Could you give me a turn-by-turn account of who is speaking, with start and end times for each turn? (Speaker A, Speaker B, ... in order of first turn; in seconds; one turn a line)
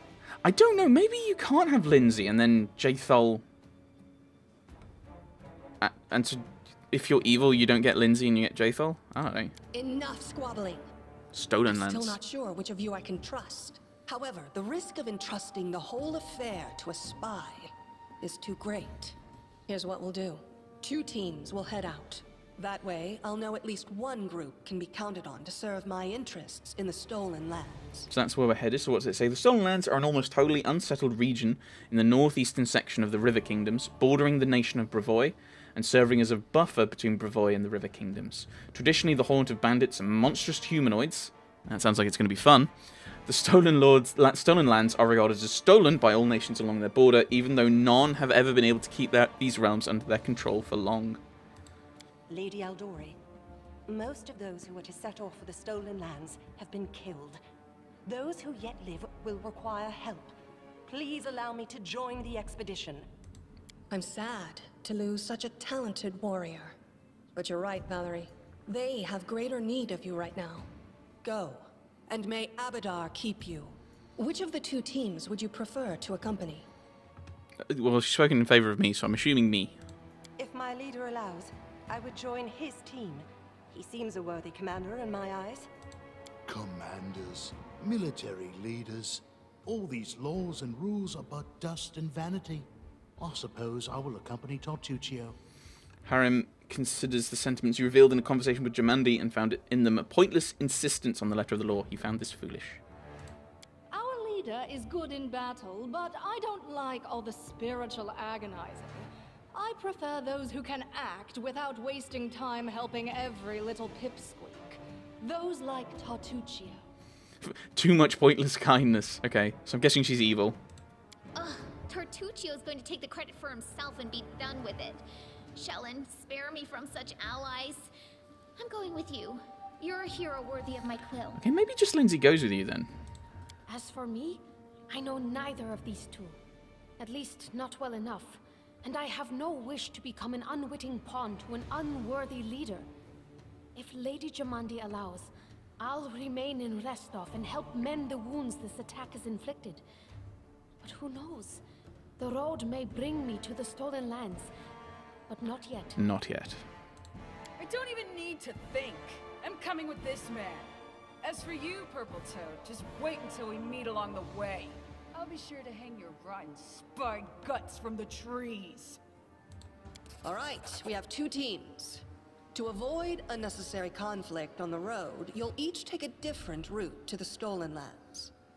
Speaker A: 0.4-3.4
Speaker A: 5.8-9.5
Speaker B: 9.7-10.8
Speaker A: 11.3-12.2
Speaker B: 11.7-28.1
Speaker A: 28.1-42.7
Speaker A: 43.3-51.2
Speaker C: 52.3-53.2
Speaker C: 53.9-57.4
Speaker C: 58.0-60.3
Speaker C: 60.9-63.1
Speaker B: 63.9-66.8
Speaker B: 67.3-70.7
Speaker B: 71.2-76.7
Speaker A: 77.7-79.8
Speaker C: 80.4-85.7
Speaker D: 86.5-95.4
Speaker A: 96.0-102.8
Speaker E: 103.9-116.8
Speaker A: 117.4-120.6
Speaker F: 121.3-125.0
Speaker F: 125.5-127.9
Speaker F: 128.6-131.4
Speaker A: 131.4-132.9
Speaker G: 133.7-136.4
Speaker G: 137.0-142.9
Speaker G: 143.8-149.8
Speaker G: 150.8-151.6
Speaker G: 152.2-154.5
Speaker G: 155.3-156.0
Speaker A: 156.0-156.7
Speaker H: 157.6-160.7
Speaker H: 161.2-169.0
Speaker B: 170.2-178.3